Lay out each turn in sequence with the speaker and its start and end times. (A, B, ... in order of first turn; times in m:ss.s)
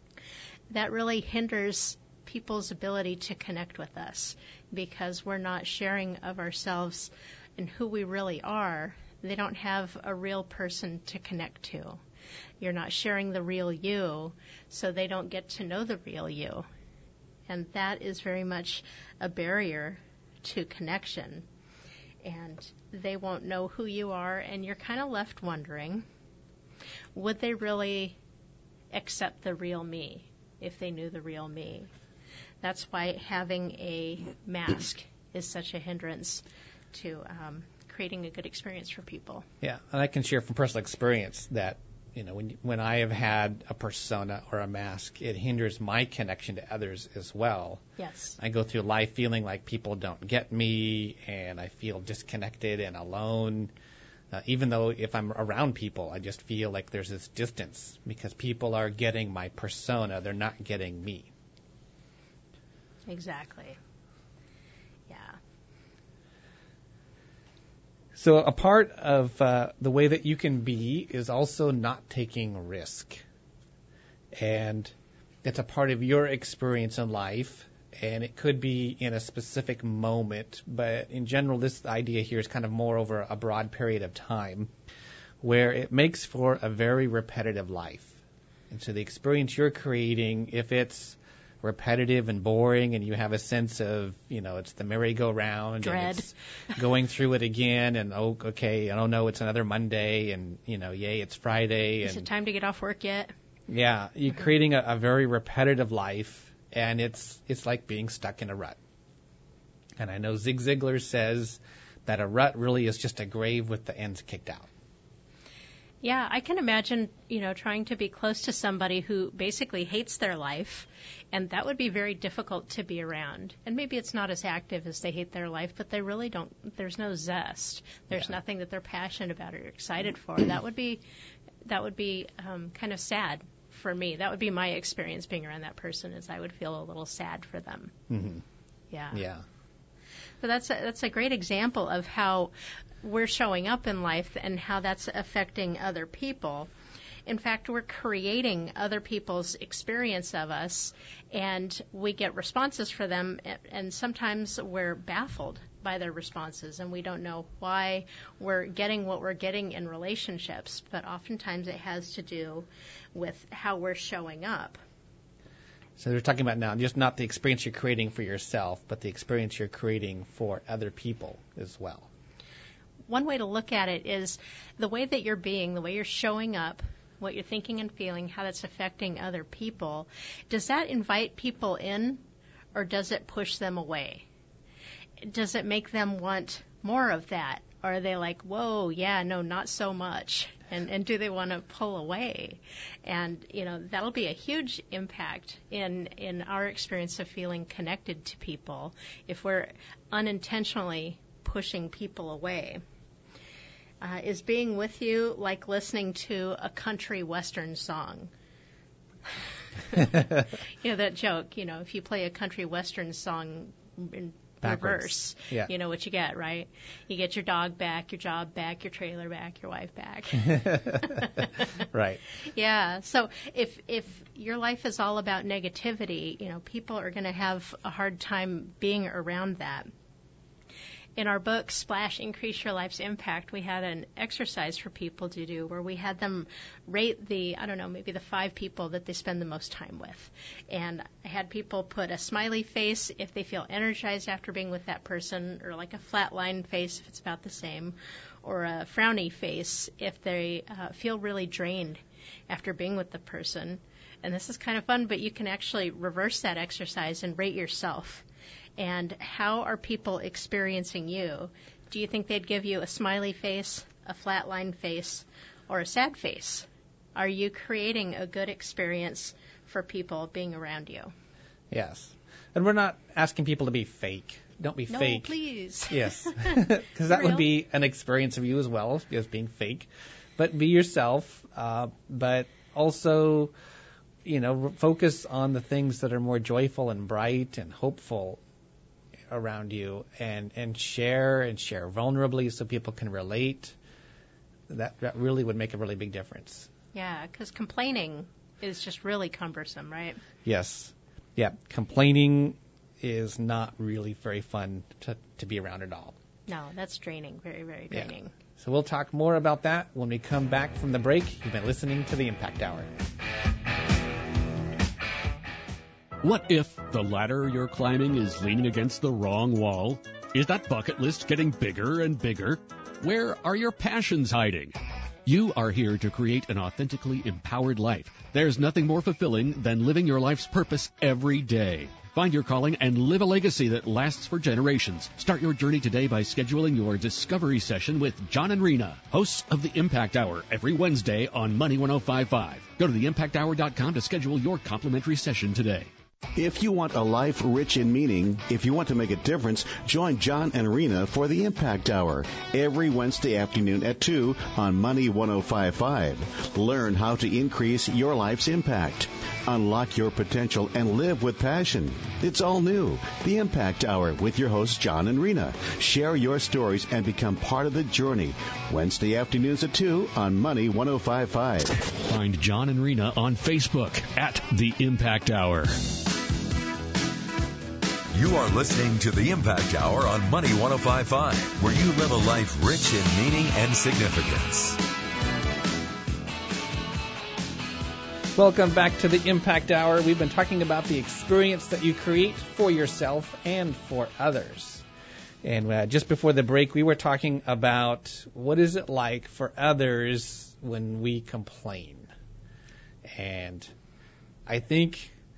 0:00.7-0:12.0 A
0:12.6-0:16.6 A
0:17.5-0:21.4 A
0:22.2-0:26.0 A
0:27.1-0:28.2 A
0:28.9-0:31.9 A
0:32.6-0:39.4 A
0:39.6-0:47.8 B
0:48.0-0:48.4 A
0:48.4-0:53.7 B
0:54.3-1:01.3 B
1:03.1-1:03.8 A
1:05.1-1:05.4 A
1:08.1-1:13.2 B
1:14.3-1:24.7 B
1:25.4-1:28.2 B
1:28.7-1:42.3 B
1:35.8-1:36.3 A
1:42.0-1:43.3 A
1:43.7-1:48.8 B
1:50.0-1:54.7 B
1:56.0-2:11.0 A
2:11.6-2:17.9 A
2:18.1-2:18.4 B
2:18.9-2:19.2 A
2:19.1-2:19.4 B
2:20.4-2:26.7 A
2:27.2-2:44.8 A
2:46.0-2:52.1 B
2:53.1-3:02.2 A
3:02.7-3:04.2 A
3:05.2-3:22.8 A
3:24.0-3:28.3 A
3:29.9-3:41.7 A
3:34.6-3:35.7 B
3:40.4-3:41.3 B
3:41.9-3:42.2 B
3:42.4-3:49.9 A
3:51.2-4:18.2 A
4:18.8-4:31.1 A
4:31.7-4:35.3 B
4:34.9-4:37.4 A
4:35.9-4:43.5 B
4:44.2-4:48.4 B
4:49.3-4:53.8 B
4:54.7-4:56.7 B
4:56.9-5:00.2 A
5:00.4-5:06.2 B
5:06.5-5:08.3 A
5:07.9-5:12.9 B
5:16.2-5:45.9 C
5:46.3-6:11.7 D
6:12.1-6:15.8 C
6:18.1-6:24.8 E
6:28.3-6:34.8 B
6:35.4-6:42.1 B
6:43.0-6:43.7 B
6:44.5-6:45.1 B